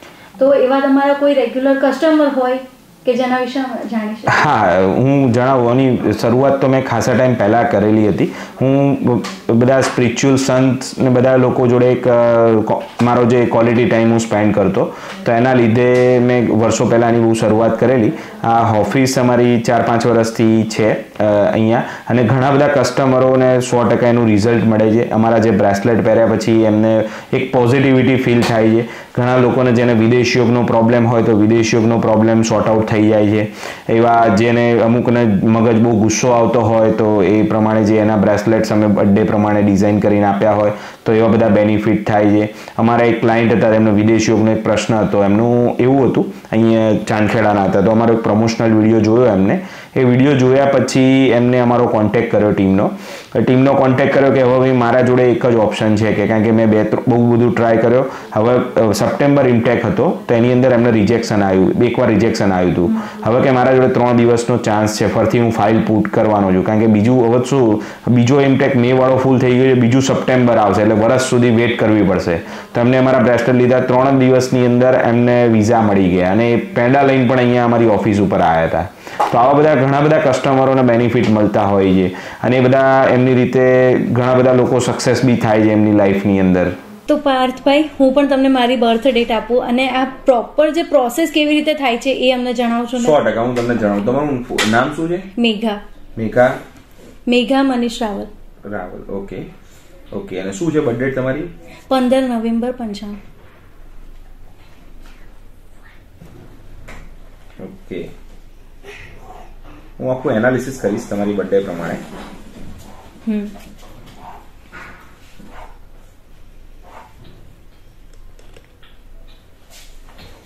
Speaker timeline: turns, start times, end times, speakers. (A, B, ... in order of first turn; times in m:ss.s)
0:00.4-0:04.4 A
0:04.3-1:26.8 B
1:27.1-1:33.1 A
1:32.9-1:35.3 B
1:35.4-1:35.8 A
1:36.2-1:36.6 B
1:37.3-1:38.3 A
1:38.6-1:39.5 B
1:40.1-1:41.5 B
1:41.9-1:43.2 A
1:47.6-1:48.1 B
1:50.0-1:52.0 B
1:53.2-1:53.5 A